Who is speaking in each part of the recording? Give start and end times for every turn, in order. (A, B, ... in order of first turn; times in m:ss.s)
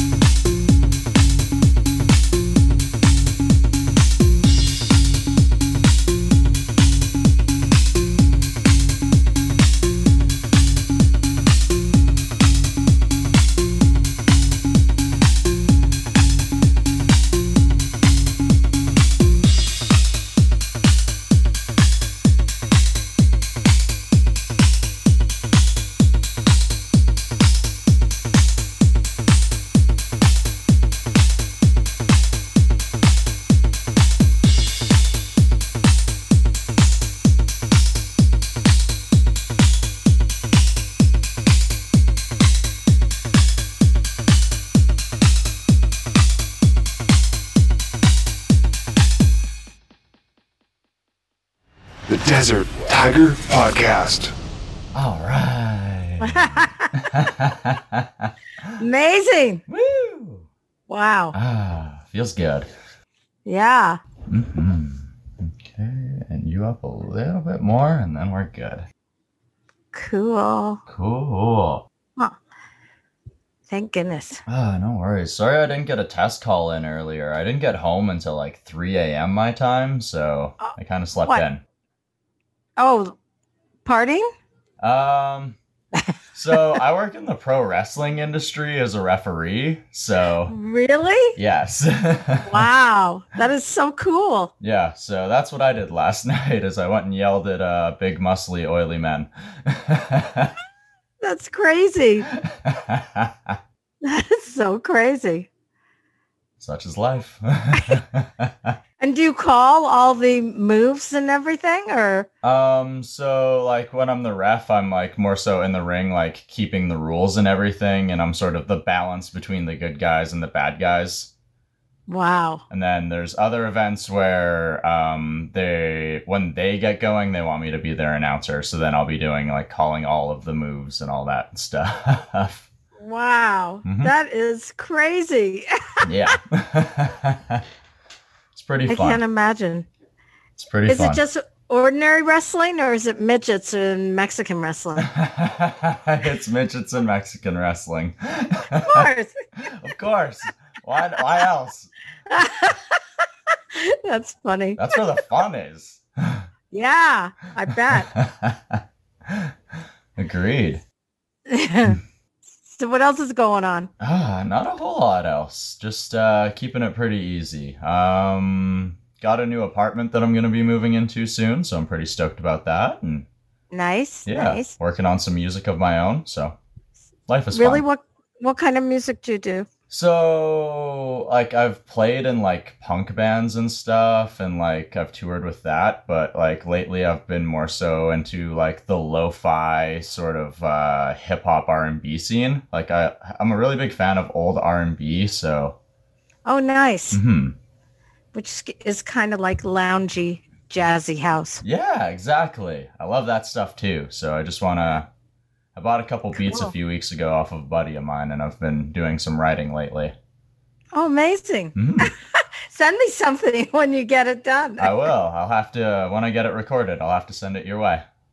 0:52.1-0:54.3 A
0:54.9-0:58.8 B
0:56.2-0:57.0 C
0:58.8-0:59.6 C
0:59.7-1:00.5 B
1:00.9-1:01.4 C
1:01.3-1:02.7 B
1:03.4-1:04.0 C
1:04.3-1:08.8 B
1:09.9-1:10.8 C
1:10.9-1:11.8 B
1:13.7-1:14.4 C
1:14.5-1:21.6 B
1:20.6-1:21.4 C
1:22.8-1:23.2 C
1:23.8-1:24.3 C
1:24.8-1:25.6 B
1:26.0-1:26.6 C
1:26.3-1:30.5 B
1:30.5-1:31.4 C
1:31.4-1:32.7 B
1:32.4-1:34.5 C
1:34.6-1:40.5 B
1:41.2-1:42.3 C
1:42.3-1:43.6 B
1:44.0-1:45.5 C
1:46.6-1:48.7 B
1:49.0-1:52.3 C
1:52.4-2:01.3 B
2:02.1-2:02.6 C
2:02.7-2:12.7 B
2:13.0-2:16.4 C
2:13.8-2:14.1 B
2:16.0-2:17.6 B
2:18.6-2:19.2 B
2:18.9-2:19.9 C
2:20.6-2:21.2 B
2:20.9-2:25.1 C
2:25.0-2:29.1 B
2:28.7-2:29.7 C
2:29.6-2:31.9 B
2:32.3-2:33.0 C
2:33.7-2:35.0 C
2:34.8-2:36.5 B
2:36.7-2:38.1 C
2:37.9-2:39.5 B
2:40.2-2:40.8 B
2:41.5-2:42.0 C
2:42.7-2:43.9 C
2:44.0-2:53.2 B
2:53.7-2:54.7 C
2:54.2-2:56.6 B
2:57.3-2:57.8 B
2:57.5-2:59.7 C
2:59.9-3:15.8 B
3:16.4-3:17.2 C
3:17.1-3:17.6 B
3:18.3-3:21.6 C
3:21.6-3:25.1 B
3:25.7-3:30.1 B
3:26.3-3:26.7 C
3:30.9-3:35.1 C
3:31.8-3:32.1 B
3:34.8-3:38.1 B